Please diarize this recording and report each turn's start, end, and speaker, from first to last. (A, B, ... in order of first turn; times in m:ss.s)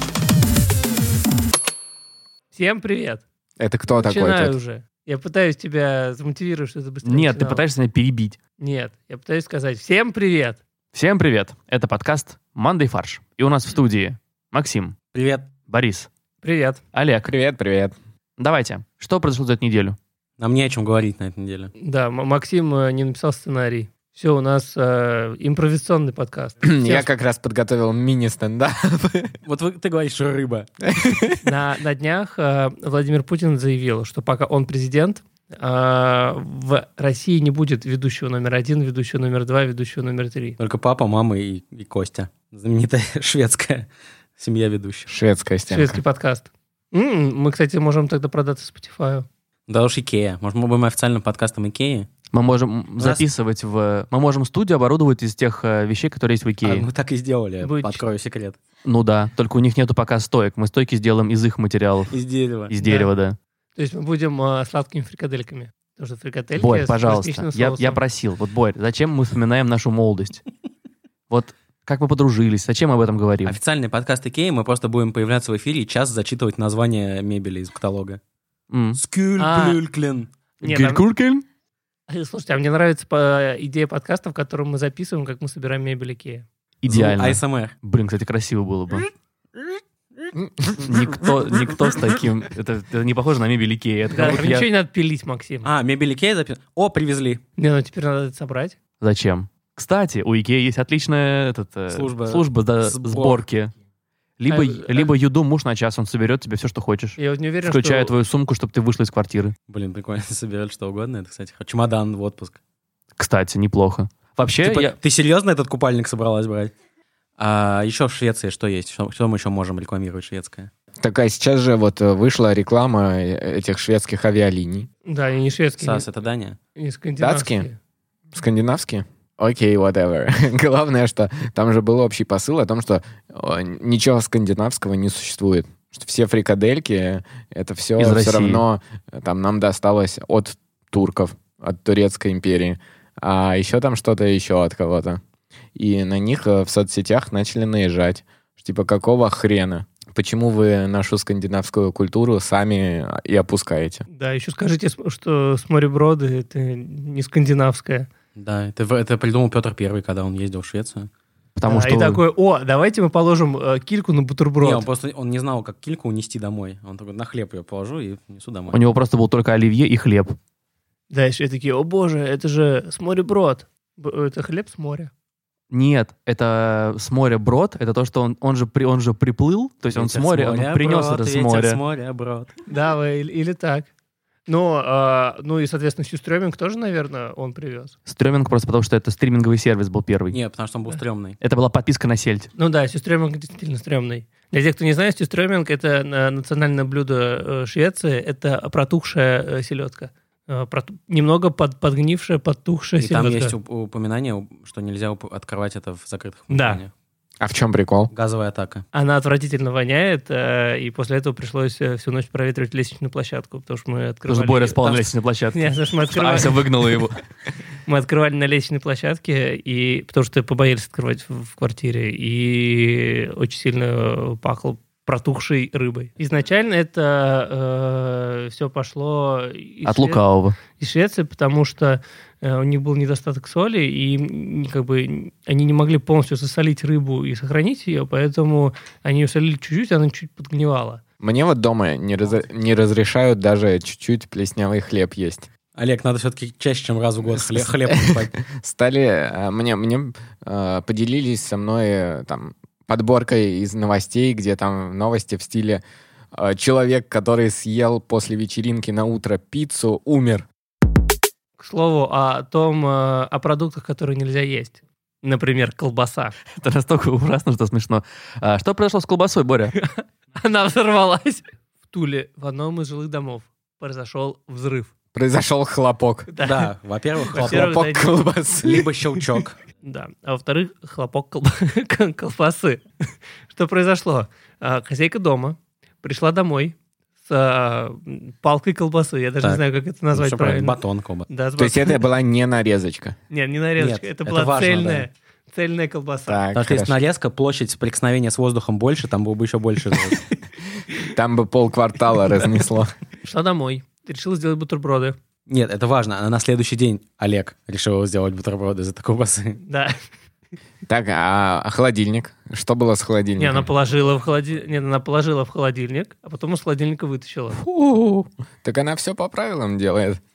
0:02.5-0:03.2 A
0:03.6-0:04.5 B
0:03.9-0:07.6 A
0:07.0-0:08.4 C
0:08.6-0:10.6 A
0:10.9-0:15.0 C
0:15.1-0:15.5 D
0:15.7-0:16.1 C
0:16.4-0:16.8 A
0:16.9-0:17.3 C
0:17.2-0:18.0 B
0:18.4-0:20.0 C
0:20.4-0:21.7 D
0:21.8-0:27.1 A
0:26.6-0:29.3 B
0:29.4-0:30.7 D
0:30.8-0:31.5 B
0:31.4-0:40.6 A
0:40.6-0:45.1 D
0:45.1-0:46.0 B
0:45.7-0:49.3 A
0:49.7-0:52.1 D
0:52.3-0:56.9 C
0:56.6-0:58.6 D
0:57.6-0:58.0 A
0:58.8-1:02.2 C
1:02.1-1:02.7 D
1:02.7-1:03.4 C
1:02.8-1:03.1 A
1:03.8-1:08.0 A
1:06.6-1:10.4 C
1:11.3-1:13.6 C
1:13.4-1:18.2 D
1:18.7-1:19.0 C
1:19.0-1:20.3 D
1:19.4-1:19.8 A
1:20.6-1:21.0 A
1:20.6-1:21.4 C
1:22.1-1:26.5 A
1:26.8-1:29.1 C
1:26.9-1:27.8 D
1:30.4-1:30.8 B
1:30.8-1:34.7 C
1:34.1-1:35.7 A
1:35.6-1:37.4 D
1:37.6-1:38.8 A
1:39.0-1:43.7 C
1:41.9-1:43.4 D
1:44.4-1:49.5 C
1:44.5-1:45.1 A
1:47.2-1:48.1 A
1:49.7-1:52.6 D
1:53.2-1:55.0 C
1:54.6-1:56.7 D
1:57.4-2:00.7 D
2:01.0-2:04.9 B
2:05.1-2:06.1 A
2:05.8-2:06.6 D
2:06.8-2:07.8 A
2:07.2-2:07.7 B
2:08.3-2:25.2 B
2:18.0-2:18.6 C
2:25.8-2:34.0 B
2:34.1-2:38.1 A
2:38.4-2:41.1 D
2:41.6-2:42.2 C
2:41.7-2:44.9 A
2:44.6-2:48.8 D
2:48.7-2:50.4 C
2:51.1-2:55.1 A
2:55.7-3:01.8 C
2:59.9-3:02.6 D
3:02.7-3:03.9 A
3:04.5-3:08.0 A
3:08.1-3:10.4 C
3:10.3-3:11.4 D
3:11.4-3:12.5 C
3:12.6-3:23.6 A
3:23.0-3:26.9 D
3:26.5-3:26.8 A
3:27.4-3:28.1 B
3:28.1-3:28.8 D
3:28.9-3:35.0 A
3:34.3-3:37.2 C
3:35.5-3:36.6 A
3:37.9-3:50.2 A
3:49.8-3:50.6 C
3:50.8-4:01.0 A
4:01.2-4:05.5 B
4:05.8-4:08.4 D
4:07.5-4:15.8 B
4:16.3-4:20.5 B
4:21.6-4:26.4 A
4:26.6-4:29.8 C
4:29.8-4:34.9 A
4:35.1-4:36.3 B
4:36.3-4:36.7 A
4:36.4-4:37.7 D
4:37.3-4:38.2 A
4:37.3-4:38.9 B
4:38.6-4:39.6 D
4:39.8-4:42.8 A
4:43.5-4:52.0 A
4:50.1-4:51.3 D
4:51.6-4:53.2 B
4:53.3-4:56.4 A
4:53.8-4:55.1 D
4:56.3-4:57.0 B
4:56.5-5:00.2 D
5:01.0-5:02.9 B
5:03.2-5:05.2 A
5:05.5-5:09.6 D
5:09.6-5:10.0 A
5:10.9-5:13.7 B
5:13.4-5:17.6 A
5:17.6-5:20.2 B